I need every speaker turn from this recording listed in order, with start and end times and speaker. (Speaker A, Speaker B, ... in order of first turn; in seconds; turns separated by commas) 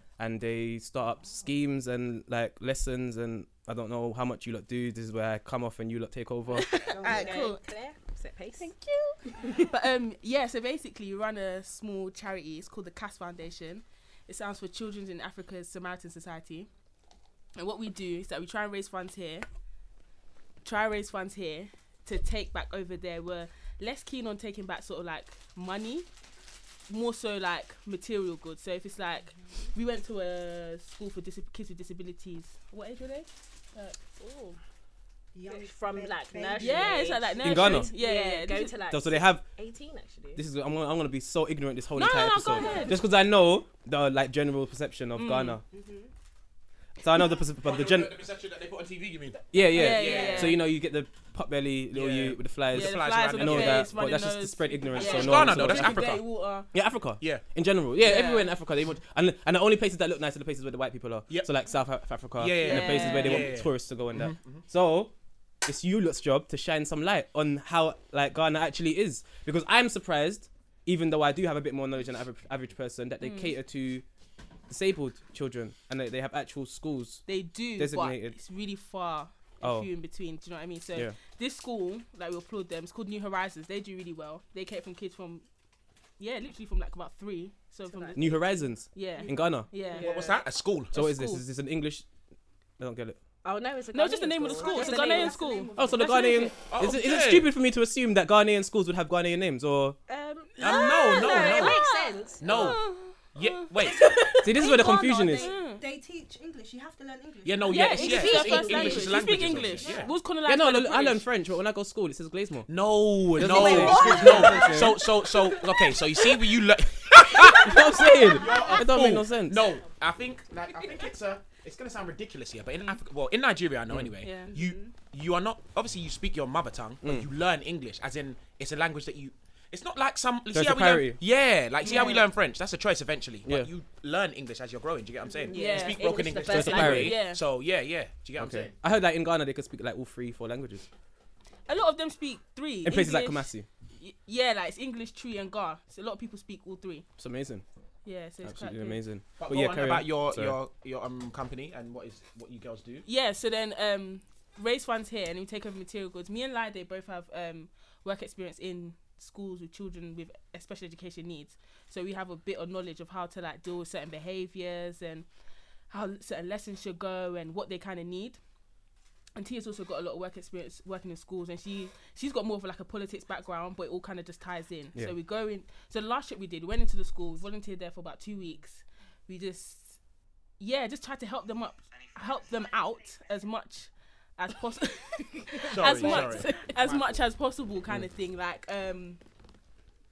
Speaker A: 0.2-6.7, Speaker B: 6.5-9.6, Speaker C: 6.8-7.6, Speaker D: 7.0-7.6, Speaker C: 9.5-16.7, Speaker C: 17.6-19.5, Speaker C: 20.6-26.1, Speaker C: 26.9-34.0, Speaker B: 34.2-34.6, Speaker D: 35.3-37.3, Speaker B: 35.5-40.4, Speaker C: 36.6-38.8, Speaker A: 37.4-37.9, Speaker A: 38.9-39.5, Speaker A: 40.4-45.6, Speaker C: 42.0-43.0, Speaker D: 42.6-43.1, Speaker C: 45.1-45.6, Speaker D: 45.7-46.1, Speaker A: 47.0-48.2, Speaker E: 47.6-50.6, Speaker A: 49.5-65.1, Speaker C: 49.6-50.6, Speaker D: 50.0-50.5, Speaker E: 51.9-53.9, Speaker C: 52.7-56.7, Speaker E: 54.9-56.1, Speaker E: 57.2-57.5, Speaker C: 58.0-58.5, Speaker E: 62.4-64.7, Speaker C: 62.6-63.5, Speaker A: 65.7-74.0, Speaker C: 73.2-73.6, Speaker A: 74.7-78.4, Speaker C: 77.3-85.5, Speaker A: 79.6-79.9, Speaker C: 86.2-90.2, Speaker B: 87.9-88.3, Speaker A: 88.2-89.7, Speaker D: 89.1-90.0, Speaker B: 89.9-90.4, Speaker E: 89.9-91.0, Speaker A: 90.9-92.1, Speaker C: 90.9-91.4, Speaker A: 92.8-93.2, Speaker B: 93.4-95.7, Speaker C: 93.9-96.5, Speaker D: 94.5-96.5, Speaker A: 95.8-100.0, Speaker E: 96.7-97.5, Speaker B: 100.1-102.8, Speaker C: 100.6-101.8, Speaker E: 100.6-101.8, Speaker E: 102.4-102.8, Speaker C: 102.5-103.7, Speaker E: 103.3-104.2, Speaker B: 103.8-104.9, Speaker D: 103.9-108.5, Speaker A: 104.4-105.5, Speaker C: 105.2-105.8, Speaker E: 107.5-110.1, Speaker C: 107.7-111.3, Speaker B: 107.7-109.4, Speaker D: 109.8-110.1, Speaker A: 110.5-112.7, Speaker E: 112.7-138.7, Speaker A: 113.3-115.0, Speaker D: 113.4-115.3, Speaker C: 113.8-114.2, Speaker A: 117.4-119.7, Speaker D: 118.2-118.7, Speaker C: 124.2-124.5, Speaker D: 124.5-124.9, Speaker A: 127.0-127.3, Speaker A: 130.5-131.2, Speaker C: 131.8-132.3, Speaker A: 133.4-133.7, Speaker B: 135.5-137.1, Speaker C: 135.5-137.4, Speaker A: 136.5-137.3, Speaker A: 138.4-140.9, Speaker C: 141.7-147.1, Speaker A: 142.8-143.7, Speaker A: 147.2-147.7, Speaker C: 148.1-149.0, Speaker A: 148.4-150.6, Speaker E: 149.4-153.1, Speaker C: 153.1-165.3, Speaker C: 165.9-168.4, Speaker C: 169.4-180.0, Speaker C: 180.6-189.2, Speaker E: 185.7-187.2